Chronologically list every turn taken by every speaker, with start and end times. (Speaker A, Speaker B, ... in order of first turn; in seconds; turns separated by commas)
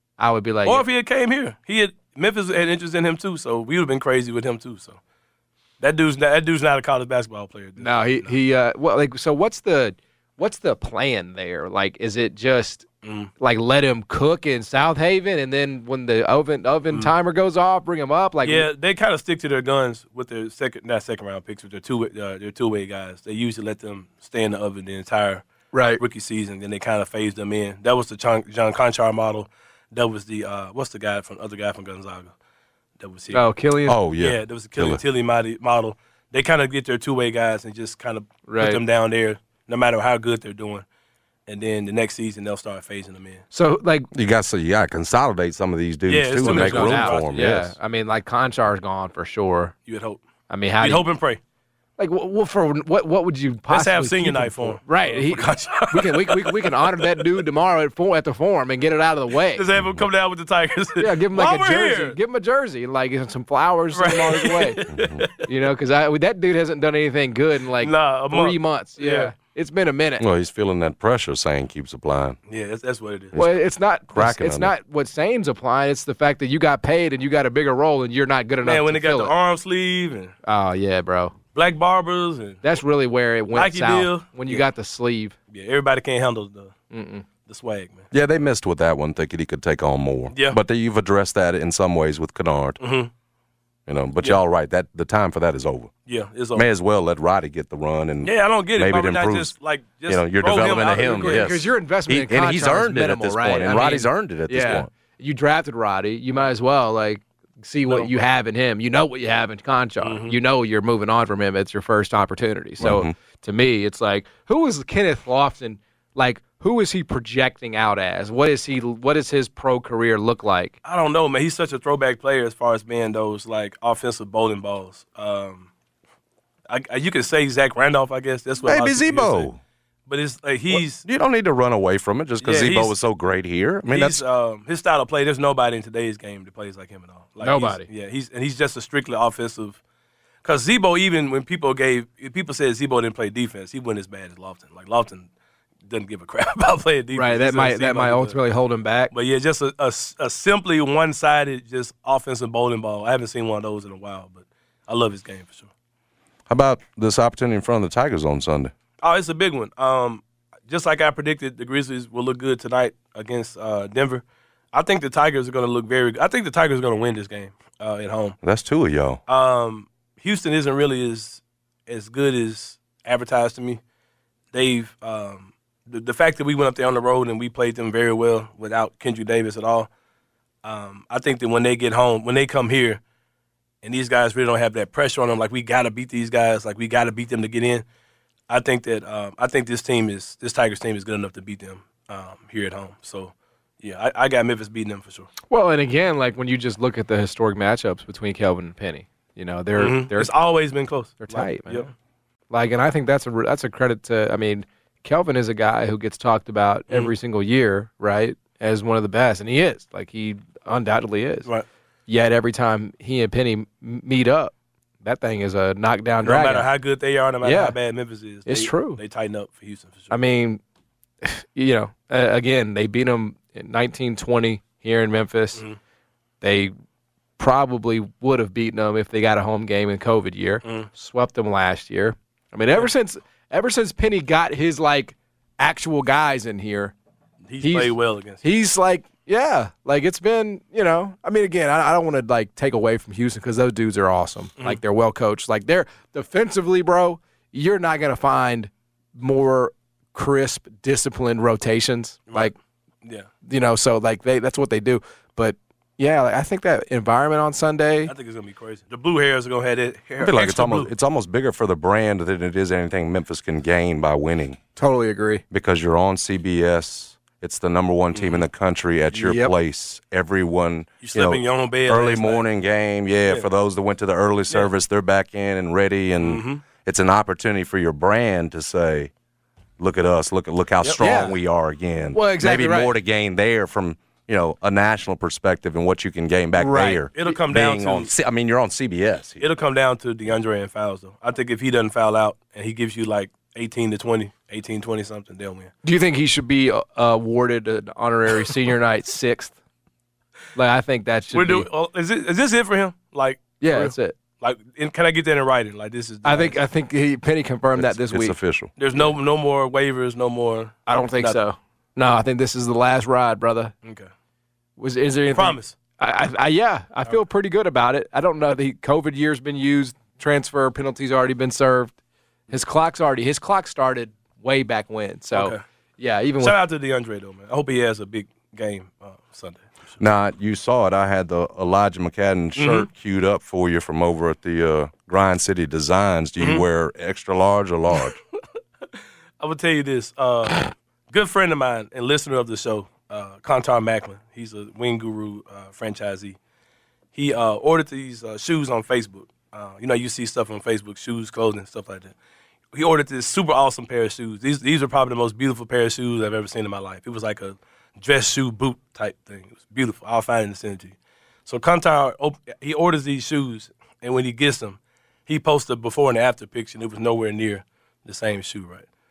Speaker A: 0.2-0.9, Speaker B: 0.6-5.0, Speaker B: 5.8-8.4, Speaker A: 7.8-12.9, Speaker B: 13.0-13.3, Speaker A: 13.4-18.7, Speaker B: 18.4-25.4, Speaker A: 25.7-26.0, Speaker B: 26.0-32.3, Speaker B: 33.0-33.4, Speaker A: 33.3-34.0, Speaker C: 33.9-35.0, Speaker B: 34.2-40.9, Speaker A: 38.5-38.8, Speaker B: 41.5-43.4, Speaker A: 43.5-44.1, Speaker C: 44.1-47.8, Speaker B: 46.1-47.5, Speaker A: 46.3-49.8, Speaker B: 49.9-50.2, Speaker A: 50.5-51.1, Speaker B: 50.8-51.4, Speaker A: 52.0-59.6, Speaker B: 53.7-57.1, Speaker B: 59.4-62.2, Speaker C: 59.8-60.0, Speaker A: 61.0-64.8, Speaker B: 63.9-65.3, Speaker C: 64.9-65.2, Speaker A: 65.4-70.2, Speaker B: 67.8-69.3, Speaker C: 70.2-72.4, Speaker B: 72.5-73.4, Speaker C: 73.3-74.7, Speaker A: 73.3-79.3, Speaker B: 78.6-80.3, Speaker A: 80.4-81.3, Speaker B: 81.5-82.6, Speaker A: 82.6-85.4, Speaker B: 83.5-84.7, Speaker B: 85.5-86.7, Speaker A: 86.9-87.2, Speaker B: 87.5-88.1, Speaker C: 88.1-92.8, Speaker B: 90.3-90.6, Speaker B: 92.8-93.1, Speaker C: 93.9-95.9, Speaker B: 96.1-96.7, Speaker C: 96.5-99.5, Speaker B: 98.2-101.6, Speaker C: 100.1-104.9, Speaker A: 101.1-120.8, Speaker B: 110.0-110.4, Speaker C: 112.8-113.1, Speaker B: 120.8-125.7, Speaker B: 126.7-129.5, Speaker C: 128.6-129.6, Speaker B: 130.1-131.1, Speaker C: 130.7-134.2, Speaker B: 132.4-133.0, Speaker B: 133.8-139.8, Speaker A: 137.4-137.9, Speaker B: 140.4-145.3, Speaker B: 145.9-148.4, Speaker A: 147.1-149.1, Speaker B: 149.1-155.7, Speaker C: 156.5-158.7, Speaker B: 159.0-168.4, Speaker C: 168.4-169.2, Speaker B: 169.3-173.8, Speaker B: 174.5-179.9, Speaker B: 180.6-183.0, Speaker B: 183.8-187.8, Speaker B: 188.5-195.3, Speaker A: 195.5-200.3, Speaker B: 199.8-201.9, Speaker A: 201.2-201.9, Speaker A: 202.5-211.5, Speaker A: 212.1-216.7, Speaker B: 216.2-220.2, Speaker A: 217.4-217.8, Speaker A: 218.5-219.0, Speaker A: 220.1-220.6, Speaker A: 221.2-225.6, Speaker A: 226.4-226.7, Speaker A: 227.4-236.9, Speaker B: 230.6-230.9, Speaker B: 237.5-238.4, Speaker A: 237.6-252.6, Speaker A: 253.4-258.1, Speaker B: 258.1-260.9, Speaker C: 260.2-264.6, Speaker A: 264.8-265.4, Speaker C: 265.5-279.1, Speaker B: 268.1-268.5, Speaker A: 269.1-269.5, Speaker B: 271.0-272.4, Speaker B: 276.2-276.6, Speaker C: 279.8-289.5, Speaker A: 281.0-281.4, Speaker A: 282.1-282.9, Speaker A: 286.6-287.3, Speaker B: 287.1-288.1, Speaker B: 289.4-295.7, Speaker A: 295.8-299.6, Speaker A: 300.6-301.7, Speaker B: 301.3-306.6, Speaker A: 303.6-304.2, Speaker A: 306.2-308.4, Speaker C: 307.8-308.7, Speaker B: 308.8-311.4, Speaker A: 310.9-313.8, Speaker B: 313.8-314.1, Speaker A: 314.8-321.9, Speaker B: 315.3-315.8, Speaker A: 322.5-326.6, Speaker B: 325.3-325.6, Speaker B: 326.4-330.0, Speaker C: 330.0-338.2, Speaker B: 332.6-332.9, Speaker B: 336.4-336.6, Speaker B: 339.4-346.4, Speaker B: 347.1-352.1, Speaker B: 352.7-368.9